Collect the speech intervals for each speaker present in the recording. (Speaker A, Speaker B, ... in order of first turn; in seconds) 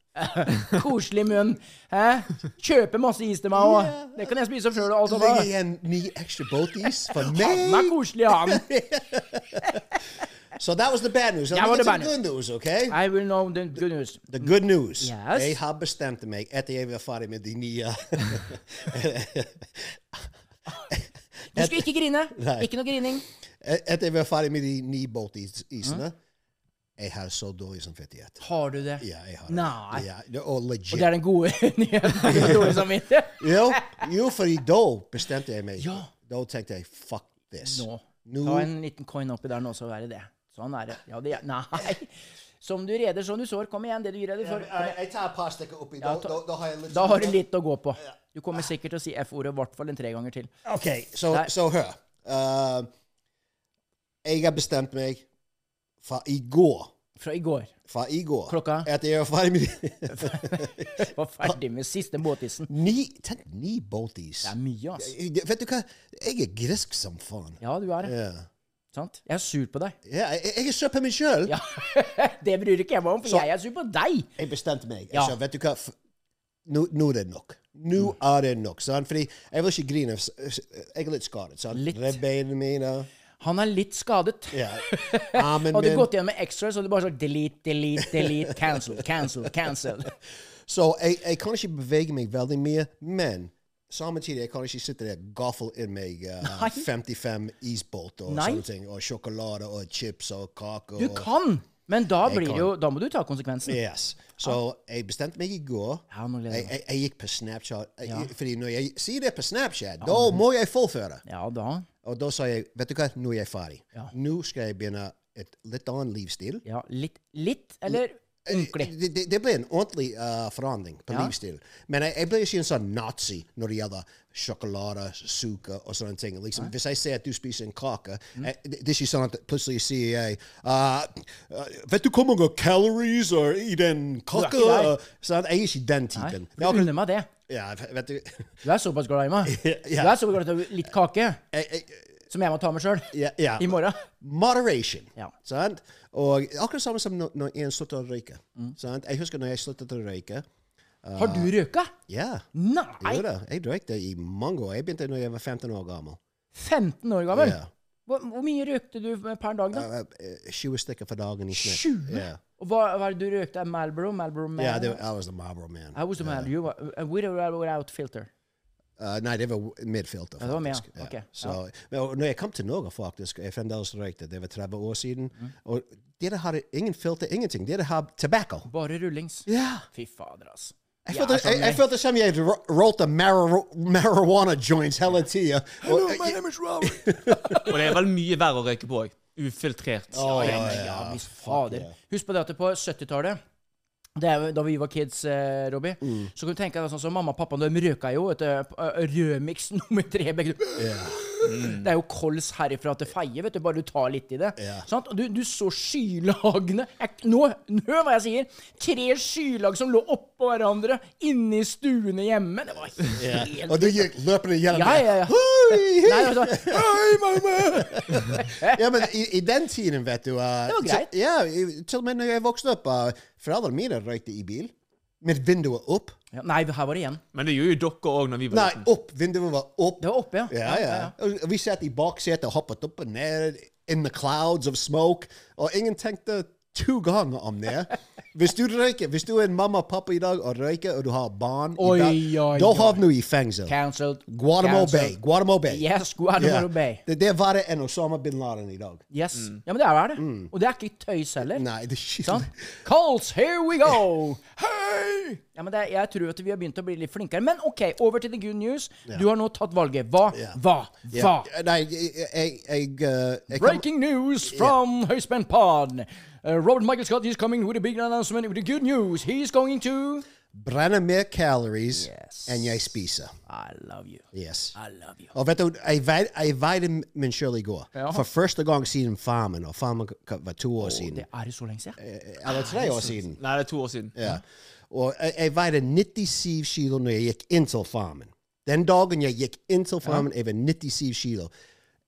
Speaker A: 0.2-5.5, 7.1-8.7, 11.5-12.1, 12.9-15.6, 21.5-23.2, 28.4-30.1, 30.9-34.0, 35.8-36.1, 37.6-45.0, 46.0-46.4, 46.9-50.5, 57.2-57.7, 58.5-58.9, 60.1-62.7, 64.4-65.1, 67.6-68.1, 68.9-70.0, 71.5-74.3, 75.1-75.4, 81.7-82.2, 83.4-90.1, 96.4-96.9, 98.3-98.6, 101.0-103.8, 106.1-106.7, 108.0-108.3, 110.0-110.4, 111.3-111.9, 116.7-118.9, 134.3-134.9, 136.2-137.3, 138.6-141.4, 142.3-144.0, 151.2-151.9, 152.5-153.2, 156.6-159.9, 161.5-165.0, 165.9-168.3, 170.4-171.6, 178.7-181.8, 185.8-187.9, 190.1-193.4, 194.2-214.1, 214.7-218.8, 220.7-221.1, 226.3-227.2, 230.0-231.1, 241.8-243.1, 243.7-245.2, 245.7-247.0, 249.1-251.6, 252.2-261.5, 263.5-270.3, 271.9-272.8, 273.5-275.3, 277.9-278.2, 280.8-283.1
Speaker B: 3.5-4.3, 5.0-9.8, 10.6-13.0, 14.3-20.3, 20.9-22.7, 23.6-26.2, 27.0-28.4, 29.0-31.1, 32.3-32.8, 33.4-38.7, 44.4-47.4, 50.6-52.9, 54.2-55.2, 56.0-56.9, 57.9-61.5, 62.7-68.5, 70.1-71.5, 74.4-76.0, 76.7-83.1, 84.5-86.1, 88.1-88.4, 90.7-101.3, 102.2-102.7, 103.7-111.2, 112.0-116.6, 117.9-136.9, 137.5-138.5, 139.4-140.3, 141.5-142.1, 143.1-150.5, 151.0-151.5, 152.1-152.5, 153.0-156.2, 157.3-157.7, 159.7-162.4, 164.6-166.5, 169.0-178.7, 179.5-179.8, 181.1-187.6, 190.1-191.9, 196.0-196.3, 200.8-201.2, 204.6-204.8, 213.2-226.2, 228.5-243.8, 244.3-245.8, 246.4-249.0, 250.2-250.5, 251.5-252.7, 260.3-260.6, 261.1-263.8, 264.5-264.8, 270.5-273.3, 274.3-274.8, 275.3-281.2, 282.0-283.4, 284.1-291.5
Speaker C: 187.7-190.8, 201.4-201.8, 227.3-228.9, 283.4-284.1